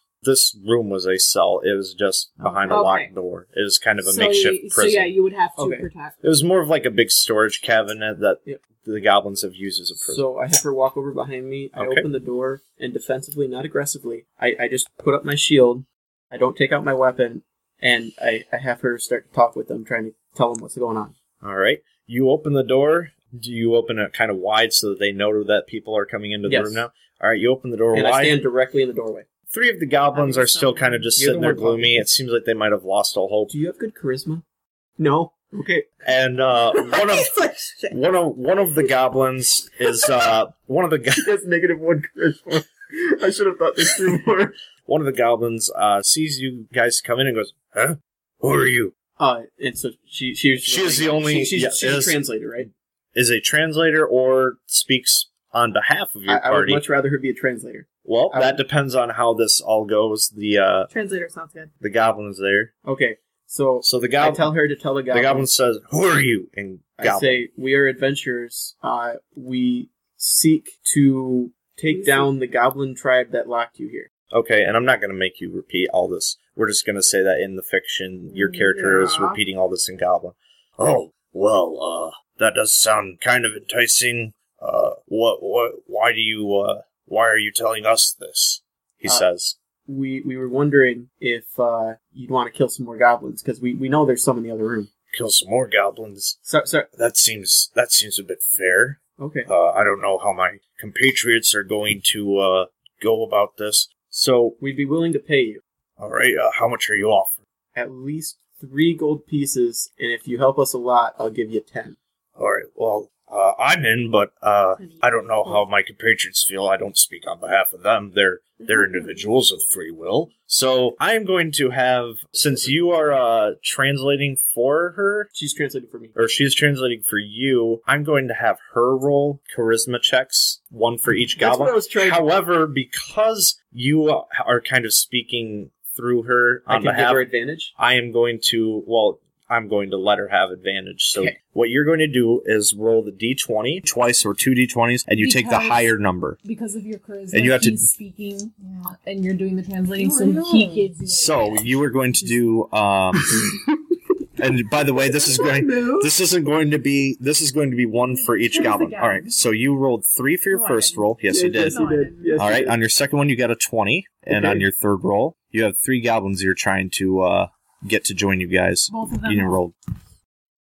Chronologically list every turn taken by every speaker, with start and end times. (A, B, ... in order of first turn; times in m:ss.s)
0:00.2-0:05.1 A
0:02.6-0:02.8 B
0:02.7-0:03.1 C
0:04.0-0:06.2 C
0:05.6-0:05.9 D
0:06.2-0:10.2 A
0:10.0-0:21.1 D
0:11.8-0:12.1 A
0:21.4-0:28.4 A
0:26.4-0:26.9 D
0:27.9-0:29.2 D
0:29.5-0:33.5 A
0:30.1-0:31.1 B
0:31.2-0:32.0 D
0:33.5-0:34.4 D
0:35.0-0:35.9 D
0:36.0-0:37.4 A
0:36.7-0:38.0 B
0:37.9-0:41.2 A
0:41.2-0:44.6 D
0:44.8-0:48.9 A
0:49.2-0:52.7 D
0:50.6-0:52.2 A
0:53.1-0:56.8 A
0:56.2-0:58.6 D
0:58.0-1:00.9 A
1:00.9-1:01.7 B
1:01.8-1:02.7 A
1:02.8-1:05.5 D
1:03.8-1:04.5 A
1:05.1-1:07.4 A
1:07.0-1:14.1 D
1:11.9-1:12.3 B
1:14.3-1:29.6 A
1:18.3-1:19.4 B
1:29.8-1:34.9 D
1:35.1-1:36.4 A
1:36.4-1:36.9 D
1:36.9-1:44.6 A
1:39.2-1:39.5 D
1:44.6-1:45.6 D
1:46.0-1:47.4 A
1:47.7-1:52.0 D
1:52.4-2:05.3 A
1:54.8-1:55.6 B
1:58.6-1:59.2 B
2:02.3-2:03.2 D
2:05.3-2:06.2 D
2:06.2-2:26.4 A
2:11.4-2:12.3 D
2:16.7-2:17.7 D
2:25.2-2:31.9 C
2:27.3-2:27.9 A
2:28.6-2:28.9 B
2:30.0-2:30.9 B
2:31.1-2:33.4 A
2:34.4-2:41.8 A
2:35.3-2:36.1 B
2:38.1-2:39.4 C
2:40.5-2:41.1 C
2:41.3-2:42.7 D
2:41.7-2:42.3 B
2:41.7-2:42.3 C
2:42.4-2:49.7 A
2:44.3-2:44.7 D
2:48.9-2:49.6 C